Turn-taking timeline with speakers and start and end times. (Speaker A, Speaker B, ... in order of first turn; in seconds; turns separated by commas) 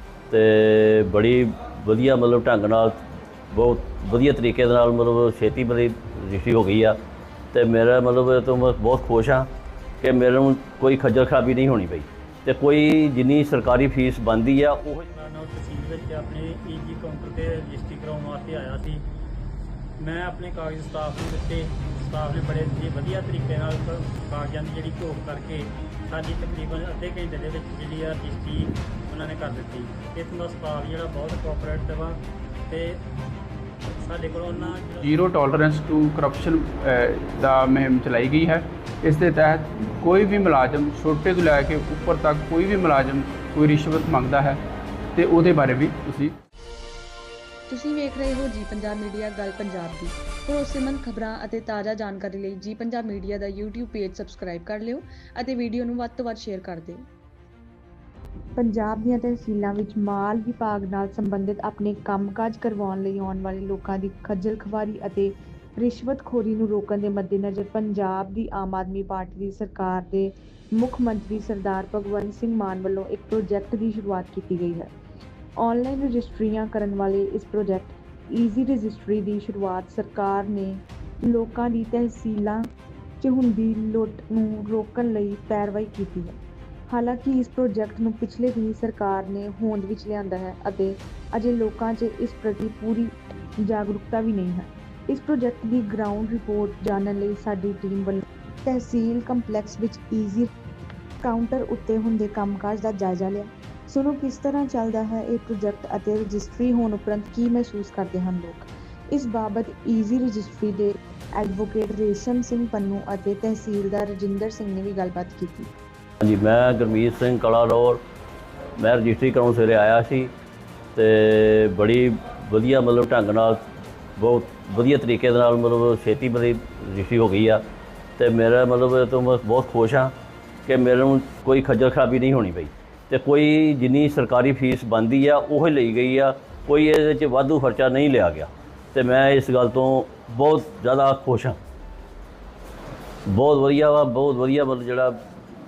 Speaker A: 0.3-3.0, Speaker A: 3.5-7.0, Speaker A: 7.5-9.5, Speaker A: 10.0-15.0, Speaker B: 15.1-19.0, Speaker B: 20.0-33.0, Speaker B: 33.9-35.2, Speaker C: 35.0-44.6, Speaker C: 45.1-46.4, Speaker D: 47.7-57.0, Speaker E: 58.5-74.9, Speaker E: 75.6-82.7, Speaker E: 83.2-86.3, Speaker E: 86.9-100.5, Speaker E: 101.2-115.7, Speaker A: 116.2-118.0, Speaker A: 118.8-120.3, Speaker A: 120.9-123.6, Speaker A: 124.2-127.6, Speaker A: 128.2-130.1, Speaker A: 130.7-141.6, Speaker A: 143.3-145.2